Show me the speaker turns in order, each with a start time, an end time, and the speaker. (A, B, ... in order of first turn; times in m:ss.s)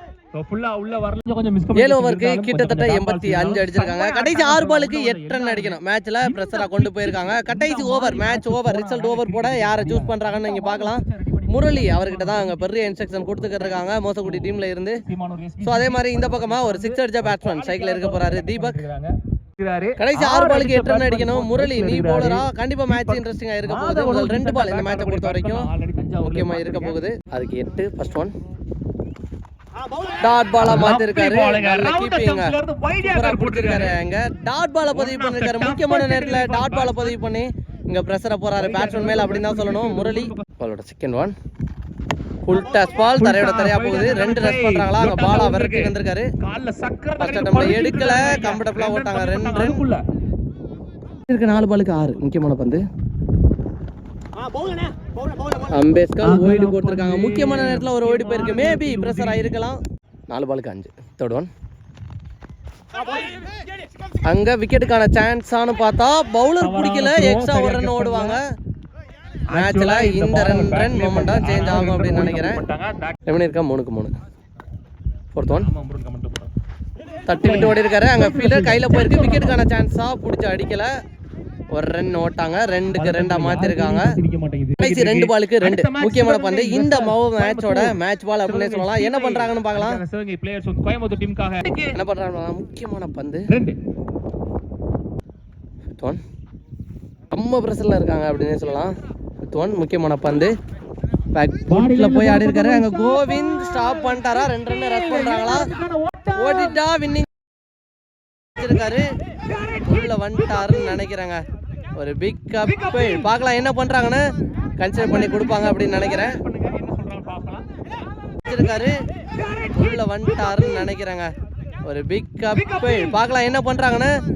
0:00.4-0:12.7 A
0:01.8-0:15.0 B
0:14.2-0:27.0 A
0:15.6-0:18.8 B
0:20.0-0:25.7 B
0:26.2-0:28.3 B
0:30.2-0:41.3 B
0:30.6-0:34.0 A
0:34.9-0:37.2 A
0:38.6-0:40.4 A
0:42.5-0:46.3 B
0:43.1-0:50.0 A
0:47.2-0:49.8 B
0:51.3-0:52.8 B
0:55.7-1:01.5 B
0:56.2-0:59.5 A
1:04.3-1:08.4 B
1:06.6-1:08.4 A
1:09.5-1:13.2 A
1:09.5-1:12.6 B
1:13.3-1:14.1 B
1:15.3-1:15.7 B
1:15.5-1:16.5 A
1:17.3-1:20.9 B
1:17.4-1:19.6 A
1:21.7-1:24.2 B
1:22.9-1:32.0 A
1:24.8-1:30.0 B
1:32.0-1:33.5 B
1:33.5-1:33.8 A
1:35.9-1:36.2 B
1:37.3-1:38.9 B
1:39.5-1:40.5 B
1:41.4-1:45.7 B
1:41.7-1:46.8 A
1:46.4-1:47.3 B
1:48.6-1:49.1 B
1:49.6-1:49.9 A
1:49.8-1:51.4 B
1:52.0-1:54.2 B
1:52.6-1:53.3 A
1:54.8-1:56.4 B
1:55.0-1:57.8 A
1:58.5-1:59.0 B
1:59.4-2:00.8 A
1:59.7-2:01.3 B
2:01.9-2:04.1 B
2:02.5-2:03.2 A